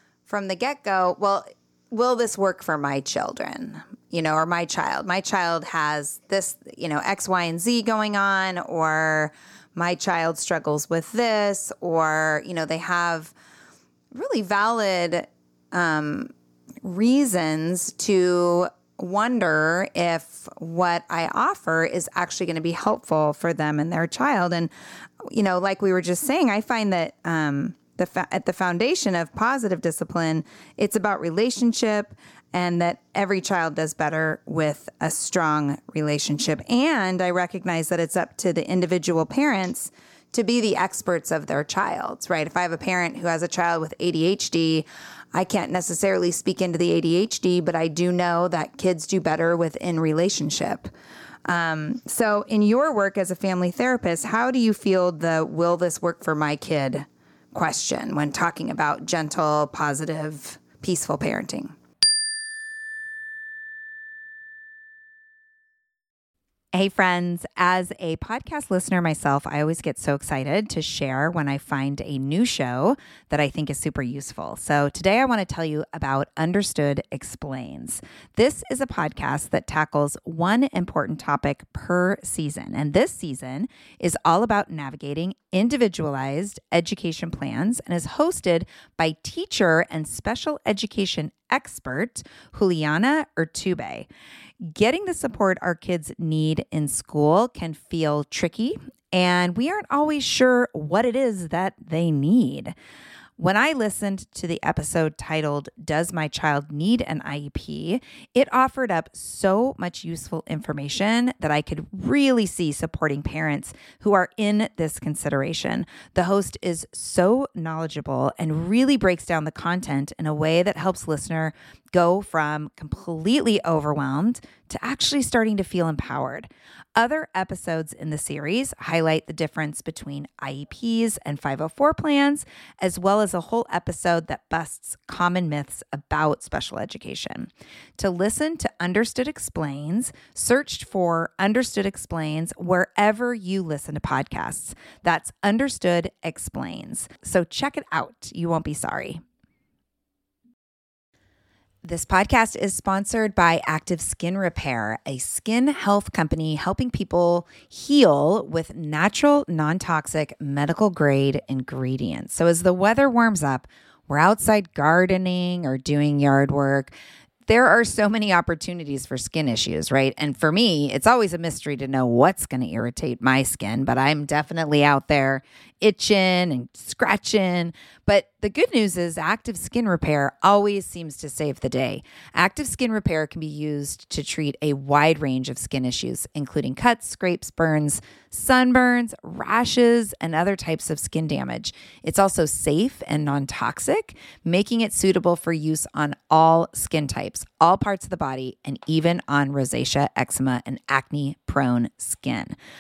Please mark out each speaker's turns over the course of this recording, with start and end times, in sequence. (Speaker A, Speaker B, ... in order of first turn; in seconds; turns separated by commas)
Speaker A: 0.3-13.3, Speaker A: 14.1-16.3, Speaker A: 16.8-24.7, Speaker A: 25.2-50.9, Speaker A: 51.5-61.8, Speaker A: 66.7-94.1, Speaker A: 94.7-102.7, Speaker A: 103.4-149.2, Speaker A: 151.8-166.9, Speaker A: 167.5-202.6